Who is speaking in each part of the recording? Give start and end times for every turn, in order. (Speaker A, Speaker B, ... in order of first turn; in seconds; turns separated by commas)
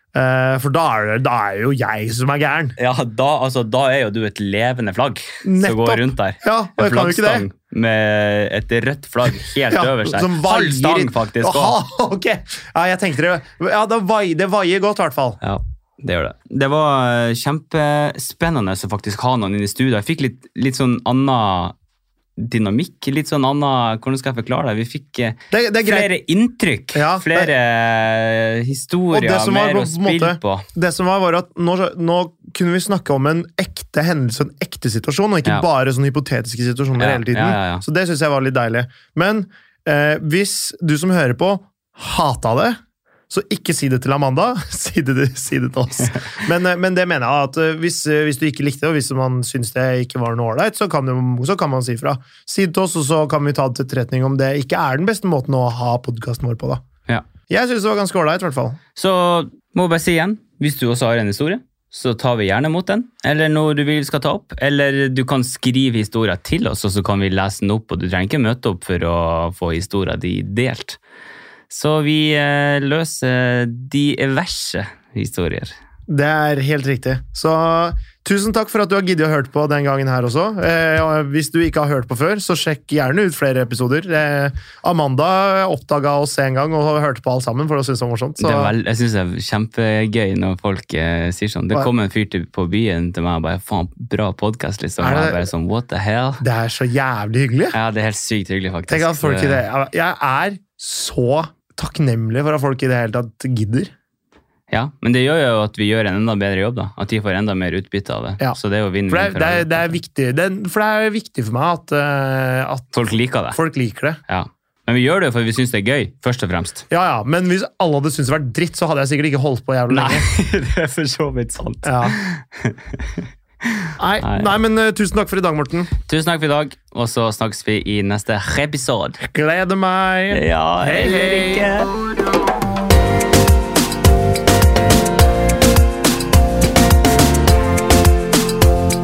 Speaker A: 0.1-2.8, Speaker B: 2.8-11.8, Speaker A: 5.4-7.4, Speaker A: 9.7-15.4, Speaker B: 15.4-21.7, Speaker B: 22.4-30.6, Speaker A: 25.5-26.1, Speaker A: 26.9-27.5, Speaker A: 29.1-42.8, Speaker B: 37.0-37.8, Speaker A: 43.3-56.8, Speaker A: 57.5-58.8, Speaker B: 59.0-71.0, Speaker B: 71.7-75.7, Speaker A: 76.1-88.7, Speaker B: 88.4-96.4, Speaker A: 95.0-95.5, Speaker A: 96.4-97.8, Speaker B: 97.7-99.6, Speaker A: 98.9-103.9, Speaker B: 104.7-109.9, Speaker A: 109.1-112.9, Speaker B: 112.9-113.6, Speaker A: 113.5-114.2, Speaker B: 114.3-116.8, Speaker A: 116.9-120.3, Speaker B: 119.9-124.5, Speaker A: 121.8-122.1, Speaker A: 124.0-125.9, Speaker B: 126.0-129.2, Speaker A: 129.2-131.7, Speaker B: 130.3-131.9